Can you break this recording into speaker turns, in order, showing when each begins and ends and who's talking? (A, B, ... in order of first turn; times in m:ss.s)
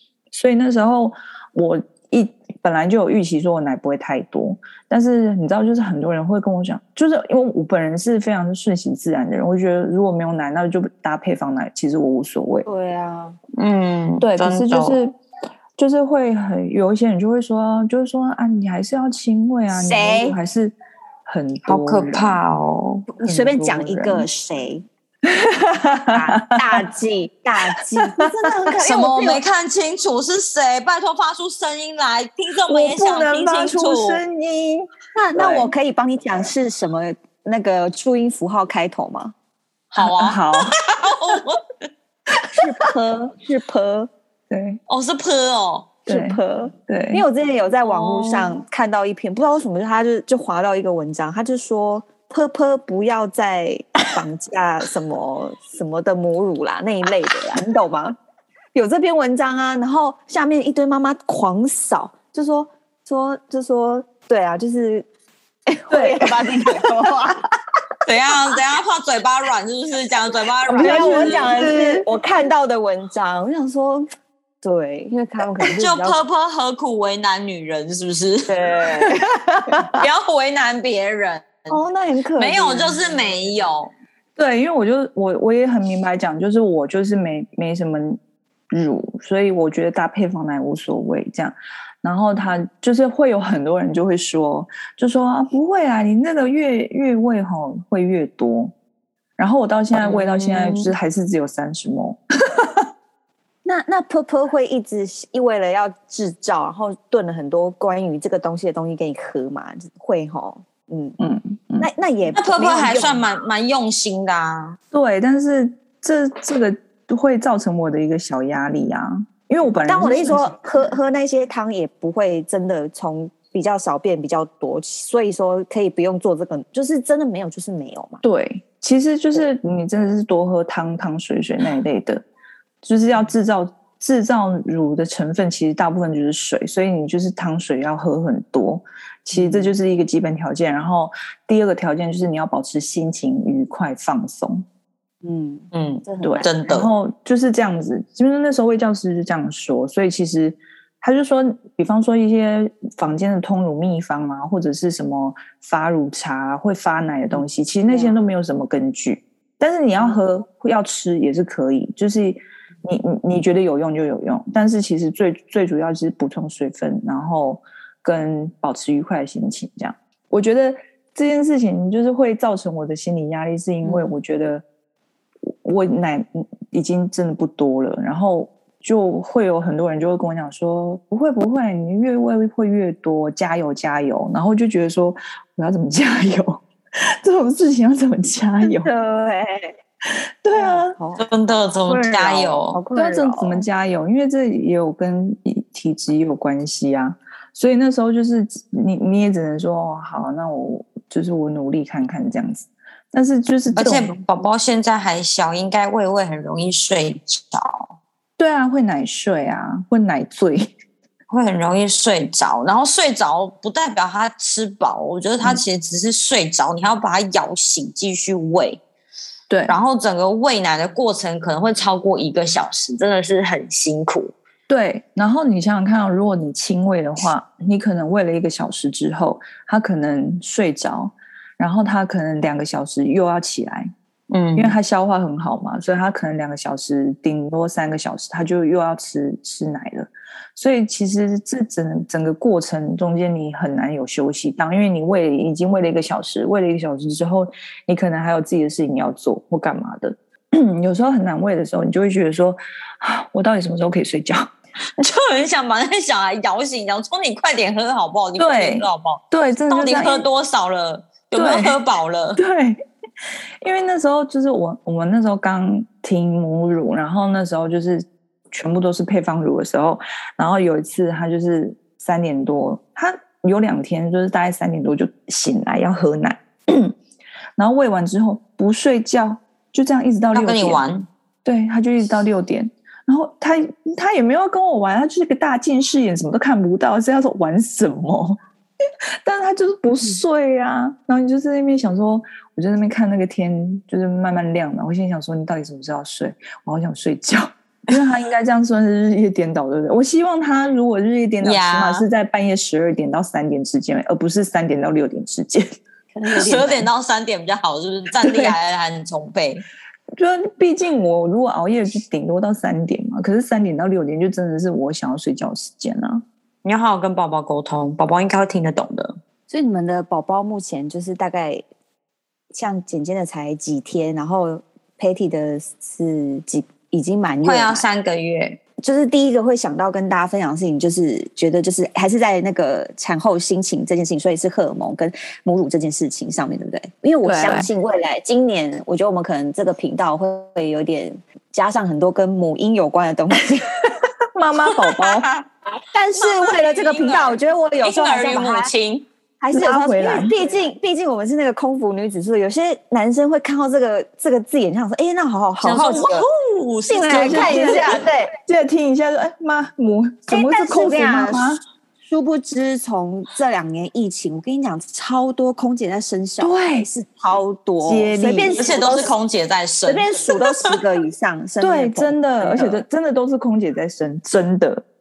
0:00.3-0:12.6 A
0:12.6-0:13.4 B
0:13.6-0:15.0 C
0:14.2-0:15.2 A
0:15.8-0:22.4 A
0:19.7-0:20.4 B
0:21.7-0:23.0 C
0:23.1-0:24.8 B
0:23.2-0:24.2 A
0:25.2-0:26.6 A
0:26.1-0:29.4 B
0:28.8-0:34.2 C
0:32.7-0:35.7 A
0:35.1-0:39.3 B
0:39.9-0:41.7 C
0:40.0-0:40.8 A
0:42.5-0:44.1 B
0:44.5-0:44.8 A
0:44.9-0:46.0 C
0:46.1-0:47.2 A
0:46.1-0:58.2 B
0:47.8-0:48.6 C
0:58.7-1:05.1 B
1:05.7-1:07.4 B
1:05.9-1:06.9 A
1:08.0-1:11.6 C
1:10.7-1:12.1 A
1:10.7-1:14.1 B
1:14.6-1:16.2 B
1:15.6-1:19.2 C
1:18.5-1:20.0 B
1:19.8-1:21.8 C
1:21.7-1:23.4 B
1:22.4-1:23.9 C
1:24.4-1:28.2 A
1:28.7-1:38.7 A
1:39.4-1:42.9 A
1:39.9-1:40.9 C
1:43.6-1:51.2 B
1:51.2-1:51.9 A
1:51.8-1:53.2 B
1:52.3-1:54.8 C
1:54.9-2:00.8 A
1:59.8-2:08.2 B
2:08.2-2:12.2 A
2:12.8-2:24.6 A
2:19.3-2:19.7 B
2:25.2-2:26.6 B
2:25.7-2:26.9 C
2:26.2-2:54.6 A
2:37.9-2:38.2 B
2:53.8-2:54.1 B
2:55.5-3:06.6 A
3:07.2-3:08.9 A
3:08.6-3:09.7 B
3:10.4-3:11.0 A
3:10.5-3:13.6 B
3:11.2-3:12.8 C
3:12.9-3:24.1 A
3:23.7-3:27.9 C
3:28.4-3:30.7 A
3:31.3-3:38.8 C
3:39.5-3:39.8 A
3:39.7-3:44.3 C
3:44.7-3:53.9 A
3:54.3-3:54.8 C
3:54.6-4:14.5 A
4:15.0-4:22.4 C
4:18.4-4:20.3 A
4:21.3-4:21.8 A
4:22.4-4:22.8 A
4:23.6-4:37.0 A
4:37.6-4:40.8 A
4:40.3-4:41.1 C
4:41.4-4:48.4 A
4:49.2-5:05.7 A
5:01.4-5:02.0 C
5:06.1-5:06.9 B
5:06.3-5:09.6 C
5:08.2-5:08.6 A
5:10.2-5:16.2 A
5:16.6-5:19.2 C
5:19.5-5:21.6 B
5:22.5-5:27.8 B
5:27.4-5:28.6 C
5:28.8-5:43.7 B
5:37.2-5:37.7 A
5:44.3-5:45.3 A
5:44.7-5:45.4 C
5:45.9-5:48.7 B
5:46.2-5:49.1 C
5:49.4-5:56.3 B
5:49.5-5:50.4 A
5:55.6-5:58.0 C
5:56.8-5:58.3 B
5:57.1-6:01.6 A
6:00.3-6:01.5 B
6:02.1-6:09.1 B
6:06.4-6:06.9 A
6:07.8-6:08.7 A
6:08.6-6:10.8 C
6:09.8-6:12.8 B
6:11.6-6:14.8 A